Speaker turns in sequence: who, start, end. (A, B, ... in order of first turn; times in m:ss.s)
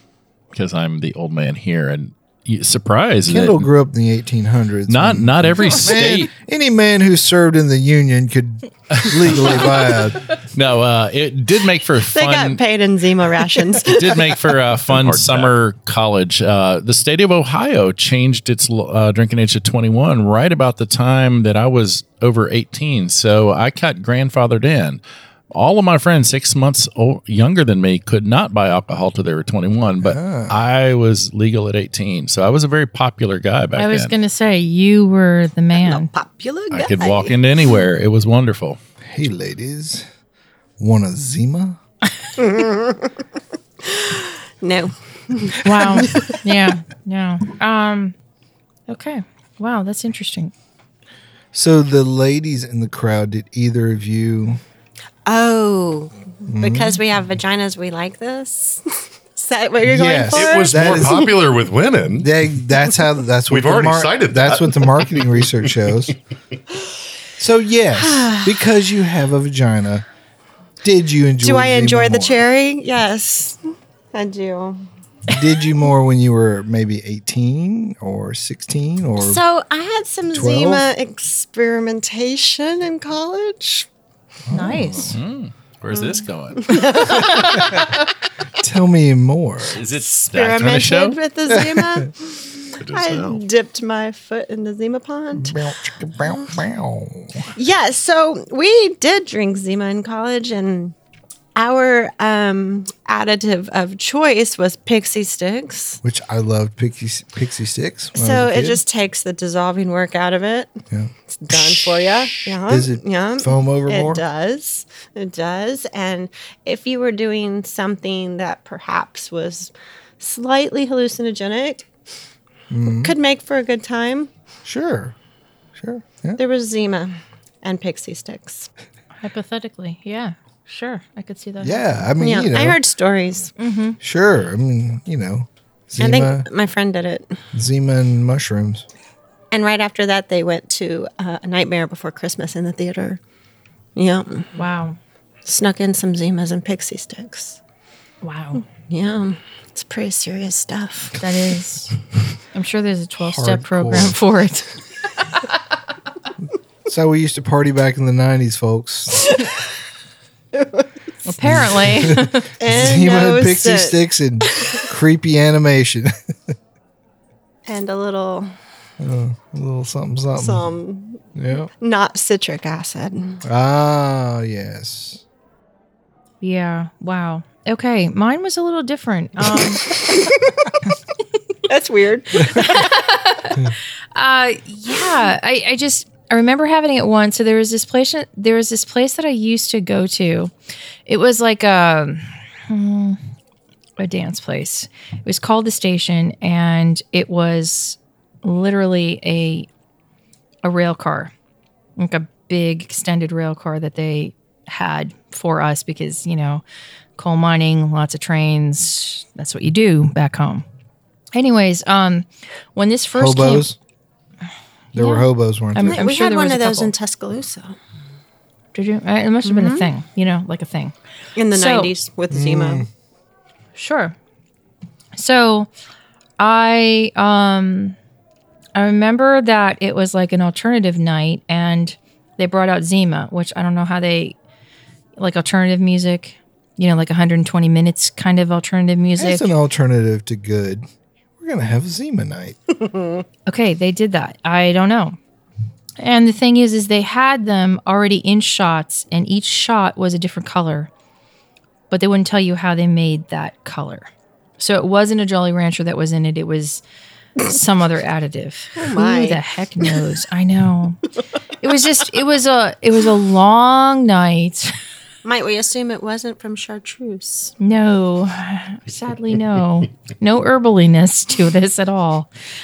0:00.5-0:03.7 A
0:03.3-0:10.3 B
0:04.9-0:06.3 A
0:08.9-0:09.7 A
0:10.5-0:12.6 A
0:12.1-0:14.4 C
0:13.8-0:34.1 A
0:14.8-0:15.5 D
0:30.0-0:30.6 B
0:33.8-0:36.1 E
0:35.8-0:37.8 C
0:36.7-0:38.8 A
0:39.1-0:40.1 B
0:40.8-0:41.8 B
0:42.4-0:43.1 C
0:43.8-0:46.4 C
0:45.6-0:48.2 E
0:48.9-0:50.5 E
0:51.5-0:54.6 B
0:55.3-0:58.8 C
0:56.5-0:57.0 B
0:59.3-1:01.4 C
0:59.9-1:01.3 B
1:00.3-1:02.3 D
1:02.2-1:06.2 B
1:03.5-1:05.8 D
1:07.4-1:10.0 B
1:08.0-1:08.6 C
1:10.8-1:12.4 B
1:11.4-1:13.6 C
1:14.1-1:14.9 C
1:15.3-1:19.4 B
1:19.2-1:23.9 C
1:20.3-1:20.9 B
1:24.5-1:25.2 B
1:24.5-1:25.1 E
1:25.1-1:26.8 A
1:25.9-1:27.9 C
1:27.4-1:27.9 B
1:28.6-1:29.8 B
1:29.8-1:31.2 A
1:29.9-1:35.6 C
1:31.5-1:32.1 B
1:32.8-1:33.4 D
1:35.4-1:37.5 B
1:37.5-1:41.0 C
1:41.6-1:46.0 C
1:46.0-1:48.8 B
1:48.1-1:50.7 C
1:50.9-1:51.7 B
1:51.3-2:01.9 C
1:52.7-1:54.2 B
2:02.7-2:03.1 B
2:02.9-2:04.3 C
2:04.6-2:05.1 B
2:05.8-2:06.4 B
2:06.4-2:08.7 C
2:09.2-2:11.8 E
2:11.6-2:12.8 B
2:12.2-2:13.5 C
2:13.6-2:14.0 E
2:14.0-2:16.5 B
2:16.0-2:17.4 C
2:17.5-2:18.8 B
2:19.5-2:23.2 C
2:24.0-2:24.5 C
2:24.6-2:25.0 E
2:25.4-2:27.6 C
2:28.2-2:28.6 E
2:28.9-2:31.2 C
2:31.2-2:31.9 E
2:32.5-2:34.7 E
2:33.2-2:34.2 B
2:36.9-2:39.3 B
2:40.6-2:40.8 C
2:41.2-2:42.5 E
2:41.4-2:46.5 B
2:42.6-2:44.8 C
2:47.7-2:48.5 C
2:49.0-2:50.7 B
2:50.4-2:51.2 C
2:51.4-2:51.7 B
2:51.8-2:53.4 C
2:53.4-2:55.2 B
2:56.4-2:59.8 E
2:59.6-3:00.7 C
3:01.7-3:02.9 C
3:02.6-3:10.5 E
3:11.1-3:13.2 E
3:14.0-3:19.7 E
3:20.6-3:21.3 E
3:22.0-3:26.6 E
3:27.2-3:30.6 E
3:31.4-3:33.7 E
3:33.1-3:33.8 B
3:34.9-3:36.0 B
3:34.9-3:36.9 E
3:35.8-3:37.8 C
3:38.7-3:40.9 E
3:39.4-3:39.9 C
3:41.4-3:42.8 C
3:41.5-3:41.9 E
3:42.3-3:42.9 B
3:43.8-3:44.2 E
3:45.2-3:45.7 E
3:46.4-3:48.0 E
3:48.8-3:54.4 E
3:55.2-3:59.5 E
3:59.2-4:00.9 B
4:01.4-4:02.6 B
4:03.5-4:05.2 E
4:06.0-4:10.9 E
4:11.9-4:14.1 E
4:14.6-4:16.8 E
4:17.4-4:21.0 E
4:18.8-4:19.4 C
4:21.6-4:24.7 E
4:25.2-4:27.5 C
4:27.6-4:32.3 E